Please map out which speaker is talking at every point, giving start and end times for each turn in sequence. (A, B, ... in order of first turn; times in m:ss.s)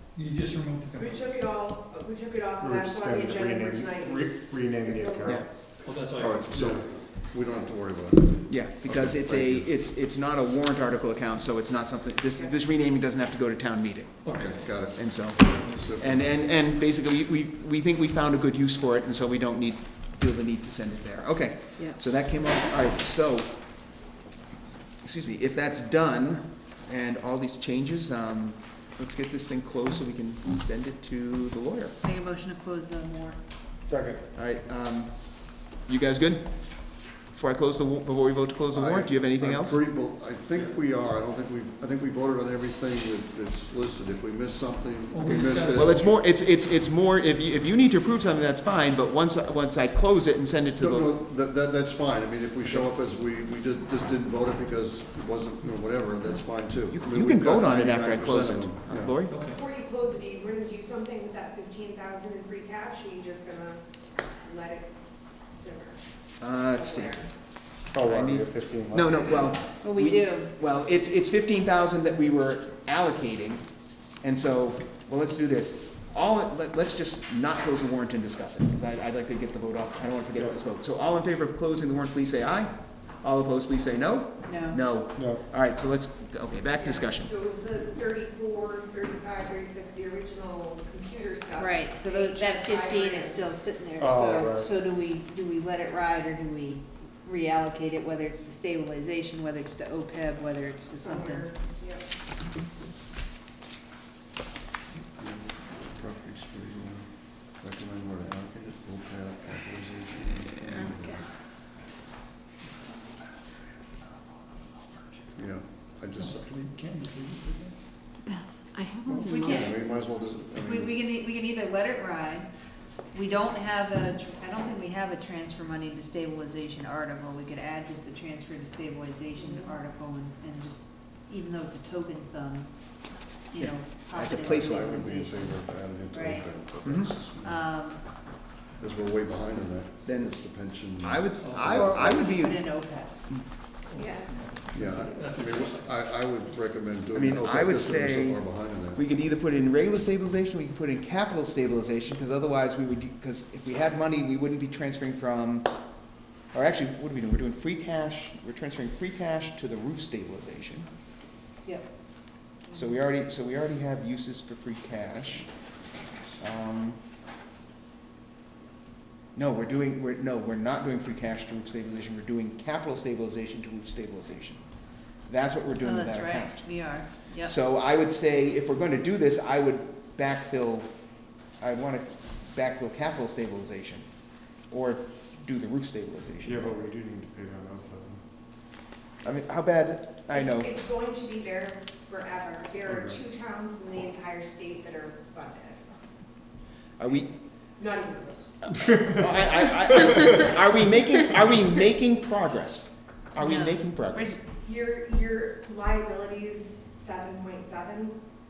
0:00.2-0:01.2 A
0:01.0-0:05.4 B
0:02.6-0:05.5 C
0:05.8-0:06.6 A
0:06.1-0:09.7 D
0:06.5-0:06.8 C
0:08.5-0:14.4 E
0:14.2-0:14.7 A
0:14.3-0:16.3 D
0:15.0-0:23.6 E
0:25.0-0:32.0 E
0:32.0-0:33.4 F
0:33.9-0:34.2 C
0:34.3-0:39.8 E
0:38.7-0:46.1 D
0:45.1-0:46.2 A
0:45.8-0:51.1 E
0:50.8-0:59.2 D
0:56.9-0:59.4 E
0:59.3-0:59.6 A
0:59.4-1:03.8 B
1:04.4-1:06.0 B
1:06.4-1:07.2 E
1:06.6-1:07.3 B
1:07.9-1:09.4 C
1:08.1-1:13.7 E
1:09.8-1:10.5 F
1:14.2-1:27.3 E
1:24.4-1:24.8 F
1:25.2-1:25.4 C
1:26.8-1:33.6 B
1:31.6-1:41.5 F
1:34.0-1:34.7 C
1:34.1-1:34.7 B
1:41.0-1:42.0 B
1:45.2-1:51.3 D
1:50.8-1:51.2 F
1:52.8-1:53.3 A
1:54.0-1:57.8 A
1:55.4-1:56.5 D
1:58.7-1:59.8 F
1:59.1-2:01.0 D
2:00.6-2:02.5 F
2:03.1-2:12.7 F
2:09.4-2:09.7 B
2:13.5-2:16.5 F
2:13.5-2:14.7 E
2:14.4-2:17.6 D
2:16.8-2:17.1 E
2:17.4-2:18.0 F
2:18.8-2:22.2 D
2:20.0-2:20.4 E
2:21.0-2:23.4 E
2:21.4-2:21.7 A
2:21.8-2:23.3 F
2:23.8-2:26.1 A
2:24.7-2:29.0 D
2:27.1-2:35.7 E
2:36.5-2:40.9 E
2:42.7-2:45.5 E
2:46.4-2:47.0 E
2:49.3-2:54.7 E
2:55.3-3:01.0 E
2:55.8-2:57.5 F
3:01.5-3:06.8 E
3:06.4-3:08.3 C
3:09.2-3:10.7 E
3:10.3-3:15.8 B
3:12.8-3:13.2 C
3:17.0-3:17.3 E
3:17.8-3:18.5 B
3:18.8-3:19.4 C
3:19.2-3:24.4 E
3:23.4-3:24.4 F
3:24.5-3:28.2 B